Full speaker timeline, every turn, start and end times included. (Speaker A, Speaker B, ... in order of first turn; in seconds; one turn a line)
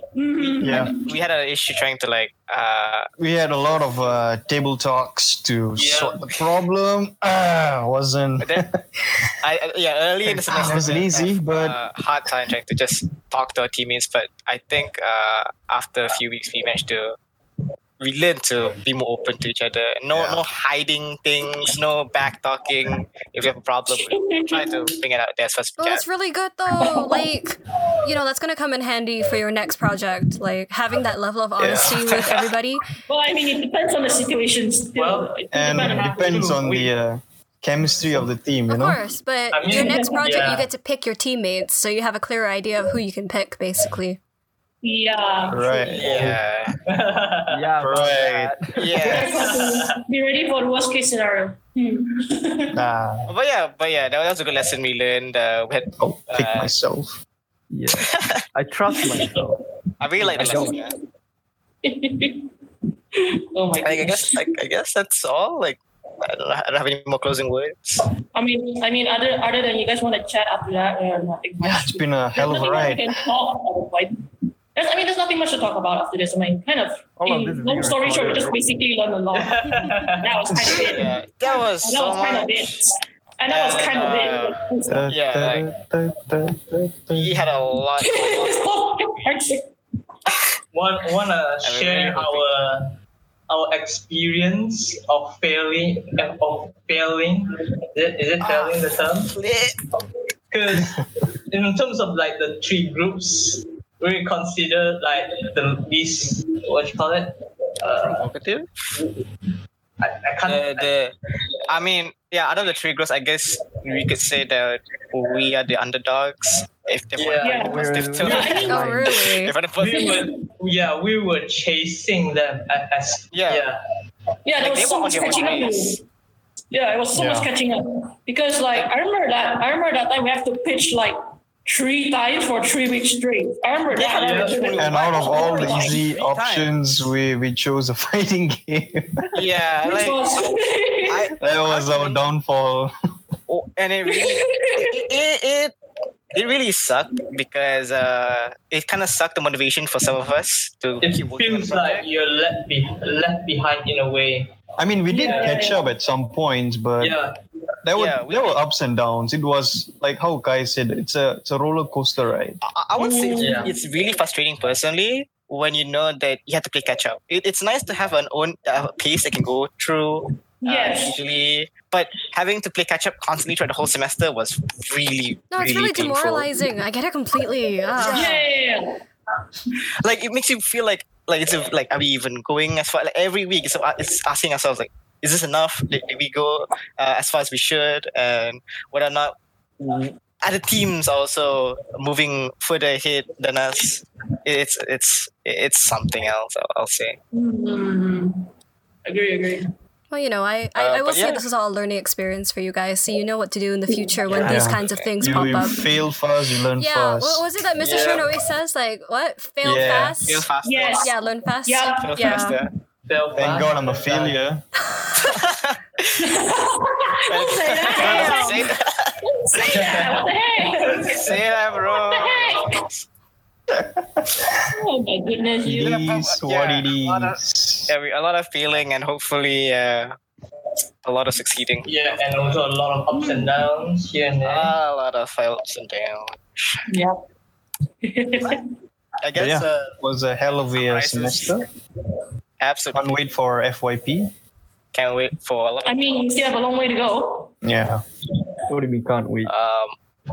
Speaker A: 0.1-1.1
Speaker B: 0.4-3.1
Speaker C: 0.6-0.9
Speaker C: 3.2-9.3
Speaker D: 5.8-6.2
Speaker B: 9.4-17.1
Speaker C: 10.2-11.8
Speaker B: 18.0-26.0
Speaker C: 20.1-20.4
Speaker A: 23.9-24.9
Speaker E: 25.8-32.8
Speaker A: 26.8-27.2
Speaker C: 31.6-32.1
Speaker A: 33.1-36.4
Speaker D: 34.9-36.9
Speaker C: 35.5-39.0
Speaker E: 38.7-44.2
Speaker D: 39.5-40.7
Speaker A: 39.7-40.2
Speaker A: 44.8-46.0
Speaker C: 45.5-46.2
Speaker B: 45.9-46.7
Speaker D: 46.9-47.6
Speaker F: 47.5-49.1
Speaker C: 47.8-48.5
Speaker B: 48.7-49.5
Speaker A: 49.1-52.7
Speaker D: 49.1-49.9
Speaker C: 52.7-53.3
Speaker B: 53.3-56.7
Speaker C: 56.0-57.2
Speaker F: 57.7-59.6
Speaker B: 58.0-58.4
Speaker A: 59.0-59.4
Speaker B: 60.0-60.9
Speaker F: 60.2-60.8
Speaker A: 60.4-60.9
Speaker A: 61.8-62.5
Speaker A: 63.1-64.5
Speaker B: 63.8-68.0
Speaker A: 68.3-74.2
Speaker C: 71.6-73.2
Speaker A: 74.7-85.0
Speaker F: 77.2-78.6
Speaker D: 79.3-80.4
Speaker B: 80.7-82.7
Speaker B: 83.5-85.7
Speaker C: 84.9-87.5
Speaker B: 87.1-88.6
Speaker A: 88.0-89.7
Speaker D: 90.7-93.0
Speaker B: 91.6-92.5
Speaker D: 93.5-99.3
Speaker B: 98.4-99.8
Speaker D: 100.5-108.2
Speaker B: 107.9-108.7
Speaker D: 110.0-110.9
Speaker B: 110.4-111.1
Speaker B: 111.7-120.2
Speaker D: 117.2-117.8
Speaker A: 117.4-118.7
Speaker F: 117.7-119.0
Speaker E: 118.7-119.5
Speaker D: 119.8-123.8
Speaker A: 119.9-120.4
Speaker B: 123.3-123.7
Speaker A: 124.4-126.0
Speaker B: 124.6-126.0
Speaker A: 126.7-136.0
Speaker C: 127.1-127.5
Speaker B: 133.9-136.9
Speaker D: 134.1-134.8
Speaker C: 134.8-139.3
Speaker B: 139.3-140.5
Speaker A: 139.8-141.3
Speaker B: 141.1-142.2
Speaker C: 141.4-142.9
Speaker B: 143.5-145.7
Speaker A: 144.1-145.0
Speaker B: 146.3-152.1
Speaker D: 151.0-154.5
Speaker C: 154.8-157.2
Speaker A: 155.1-155.9
Speaker D: 155.2-155.7
Speaker D: 157.0-157.3
Speaker C: 157.8-162.6
Speaker B: 157.9-158.6
Speaker B: 162.6-176.5
Speaker A: 163.0-163.8
Speaker D: 163.4-163.7
Speaker A: 170.6-171.2
Speaker E: 175.5-178.4
Speaker B: 178.0-178.4
Speaker A: 178.0-179.0
Speaker B: 180.0-197.2
Speaker A: 197.3-198.5
Speaker A: 199.1-199.7
Speaker E: 200.1-205.8
Speaker B: 200.8-201.4
Speaker A: 203.9-204.4
Speaker C: 204.4-207.5
Speaker B: 204.4-205.4
Speaker A: 205.4-205.8
Speaker E: 206.8-210.5
Speaker D: 207.8-208.3
Speaker C: 209.6-210.2
Speaker B: 210.2-211.1
Speaker A: 210.6-211.1
Speaker E: 211.0-212.6
Speaker A: 211.6-212.5
Speaker B: 212.0-212.7
Speaker D: 213.1-214.4
Speaker C: 213.3-214.6
Speaker B: 215.2-216.3
Speaker A: 216.2-218.7
Speaker B: 217.3-219.1
Speaker E: 218.0-218.6
Speaker A: 219.2-222.8
Speaker D: 219.6-221.2
Speaker B: 221.0-223.1
Speaker C: 223.8-224.5
Speaker A: 224.7-226.0
Speaker C: 225.6-227.9
Speaker B: 225.8-230.2
Speaker B: 231.0-232.6
Speaker D: 231.8-234.7
Speaker A: 233.1-233.5
Speaker B: 234.4-236.9
Speaker A: 236.9-237.2
Speaker A: 238.0-238.7
Speaker B: 239.2-240.0
Speaker C: 239.3-241.7
Speaker B: 240.7-241.5
Speaker B: 242.6-243.1
Speaker C: 242.9-244.3
Speaker B: 244.9-246.3
Speaker A: 245.8-247.5
Speaker C: 247.6-248.0
Speaker F: 248.7-249.5
Speaker B: 249.4-249.9